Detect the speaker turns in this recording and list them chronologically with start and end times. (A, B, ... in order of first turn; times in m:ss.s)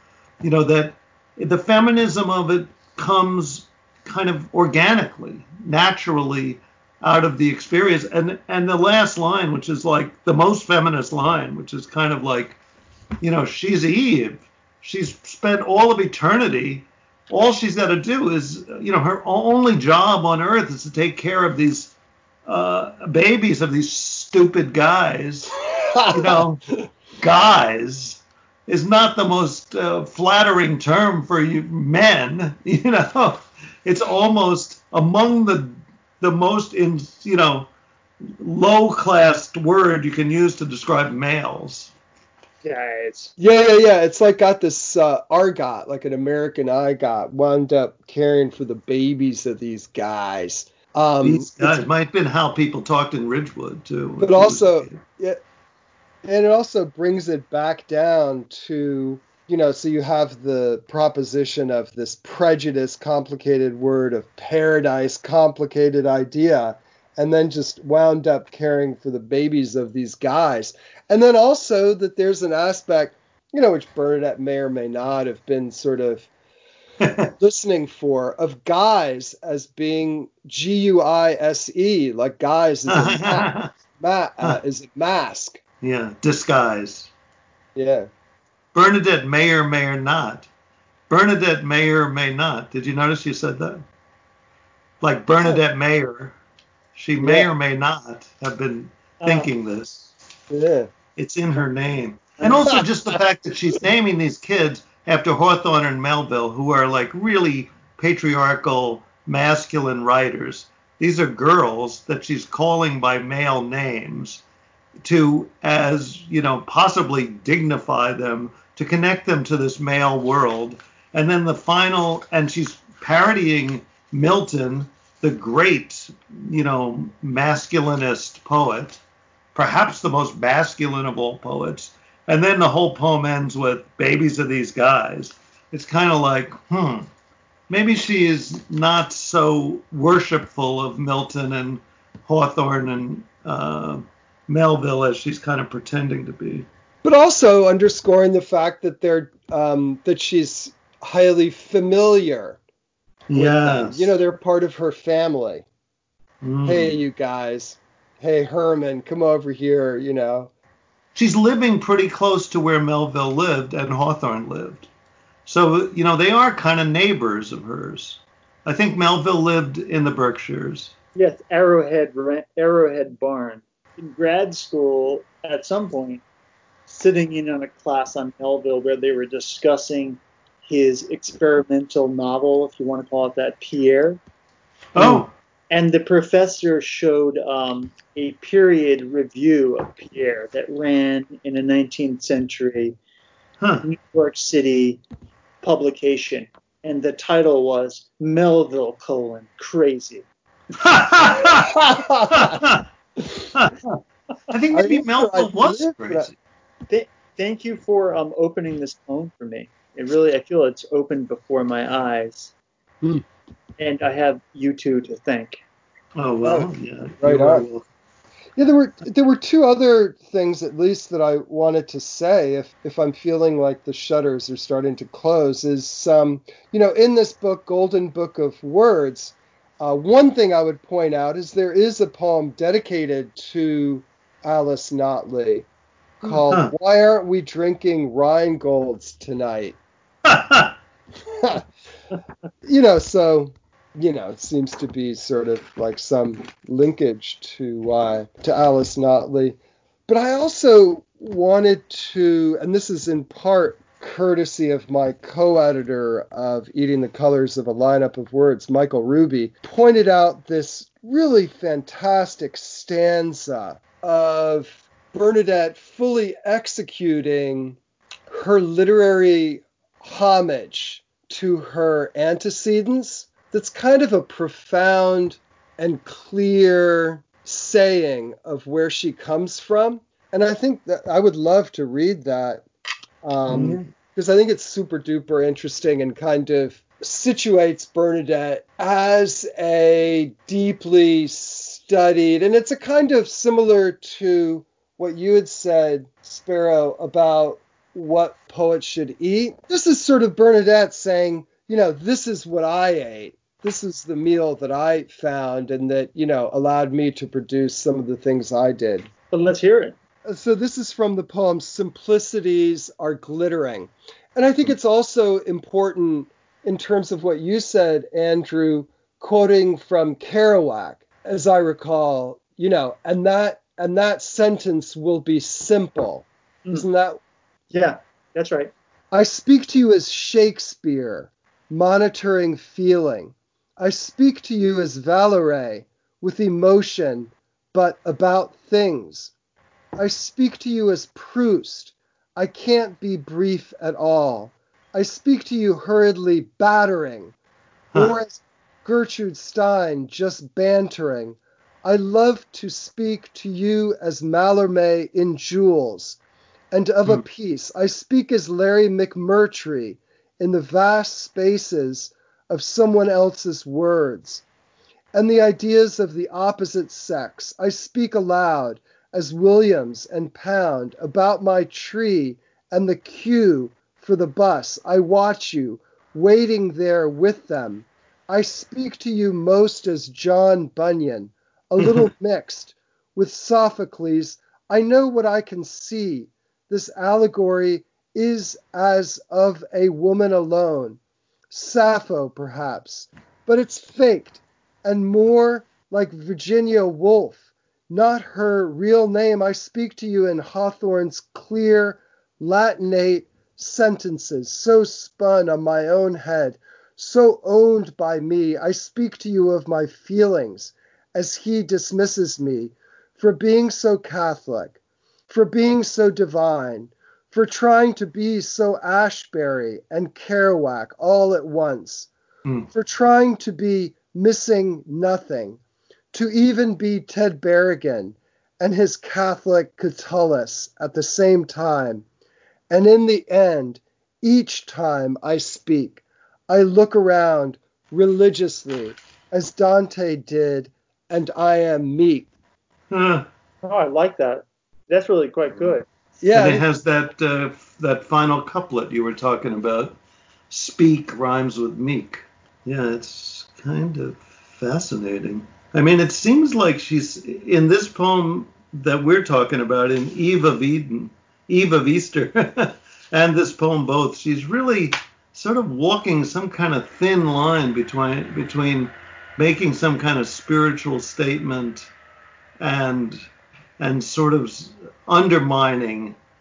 0:00.4-0:12.6 A
0:13.2-0:21.9 A
0:22.4-0:37.7 A
0:25.9-0:26.4 B
0:38.4-0:41.9 A
0:42.6-0:43.3 C
0:43.4-0:51.9 B
0:51.2-0:55.0 A
0:54.2-0:55.4 B
0:56.2-1:16.3 B
1:17.0-1:17.3 A
1:17.4-1:25.6 B
1:22.9-1:23.7 A
1:25.8-1:27.1 A
1:27.7-1:28.1 B
1:28.7-1:30.5 A
1:31.1-1:33.8 A
1:35.0-1:36.4 A
1:36.9-1:40.1 A
1:37.2-1:37.5 B
1:39.2-1:39.5 C
1:40.5-1:40.9 B
1:41.2-1:54.4 A
1:55.0-2:09.0 A
2:09.5-2:17.1 A
2:17.7-2:26.6 A
2:27.0-2:32.6 B
2:33.3-2:34.1 A
2:33.3-2:35.6 B
2:36.4-2:36.9 A
2:36.6-2:40.5 B
2:41.1-2:44.9 A
2:45.4-2:50.9 A
2:51.2-2:56.2 C
2:56.9-3:04.2 C
3:04.9-3:05.3 A
3:05.0-3:05.2 B
3:05.7-3:13.0 C
3:13.8-3:15.0 C
3:15.6-3:20.2 C
3:20.8-3:22.8 A
3:21.6-3:22.6 B
3:23.5-3:26.3 A
3:24.7-3:26.3 B
3:26.9-3:32.5 C
3:33.8-3:35.6 C
3:36.2-3:37.8 A
3:36.4-3:36.7 B
3:37.2-3:37.6 B
3:38.6-3:55.7 B
3:56.2-3:59.8 B
3:56.2-3:56.7 A
4:00.2-4:00.7 A
4:01.3-4:01.6 B
4:02.6-4:09.6 B
4:10.1-4:27.8 B
4:28.3-4:42.6 B
4:43.2-5:09.1 B
4:43.5-4:43.9 A
5:09.3-5:10.0 C
5:10.2-5:27.2 B
5:27.7-5:28.7 C
5:29.1-5:39.3 B
5:40.0-5:47.3 B
5:47.9-5:56.2 B
5:56.7-6:04.4 B
6:05.1-6:31.0 B
6:21.8-6:22.1 A
6:31.5-6:54.8 B
6:55.3-7:02.1 B
7:02.7-7:05.6 B
7:06.1-7:12.0 B
7:12.7-7:22.3 B
7:22.9-7:23.2 A
7:23.6-7:25.8 C
7:26.2-7:26.6 B
7:26.3-7:29.9 A
7:30.5-7:51.9 A
7:52.6-7:53.2 A
7:53.8-7:56.2 A